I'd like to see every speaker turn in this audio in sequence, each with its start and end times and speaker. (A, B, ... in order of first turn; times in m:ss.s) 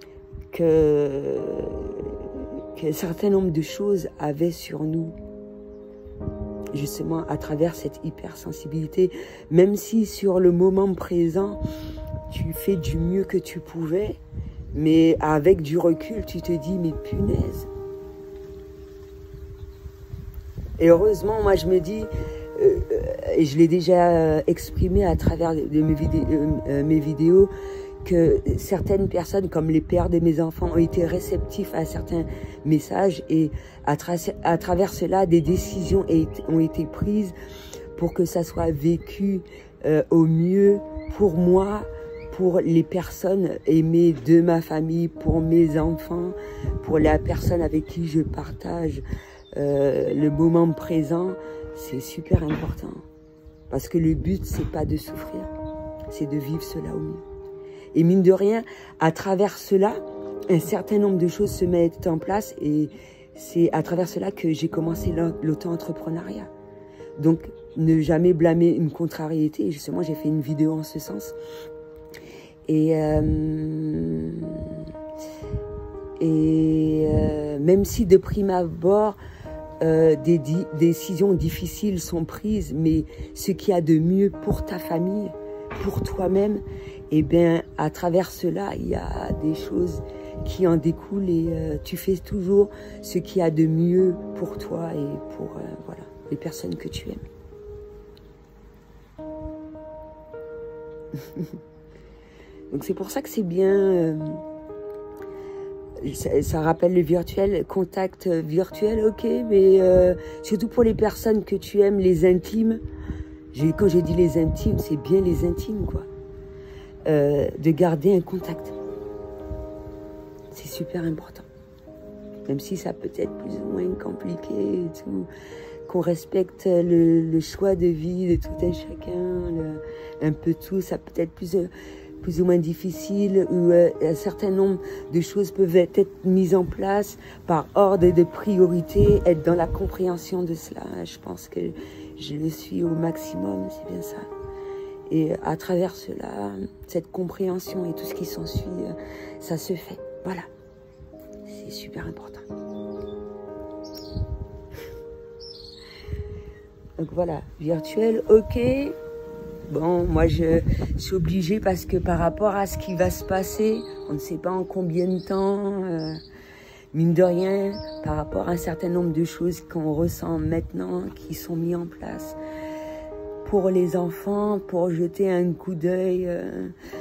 0:00.5-0:05.1 A
0:06.7-0:11.6 A
0:12.3-0:14.2 A
0:14.7-0:17.7 A
0:20.8-0:27.5 A
0:28.0-0:37.3 A
0:38.0-0:53.0 A
0:53.7-0:55.5 A
0:56.1-0:57.2 A
0:57.9-1:06.5 A
1:07.2-1:11.4 A
1:12.6-1:14.8 A
1:16.2-1:19.2 A
1:19.8-1:37.2 A
1:41.1-1:41.6 A
1:42.7-1:44.4 A
1:46.0-1:52.8 A
1:53.5-1:56.1 A
1:57.0-1:58.8 A
2:00.5-2:01.5 A
2:02.4-2:05.3 A
2:05.8-2:24.3 A
2:25.1-2:30.5 A
2:31.4-2:32.5 A
2:37.0-2:39.0 A
2:39.6-2:46.2 A
2:46.9-2:52.4 A
2:53.4-2:56.7 A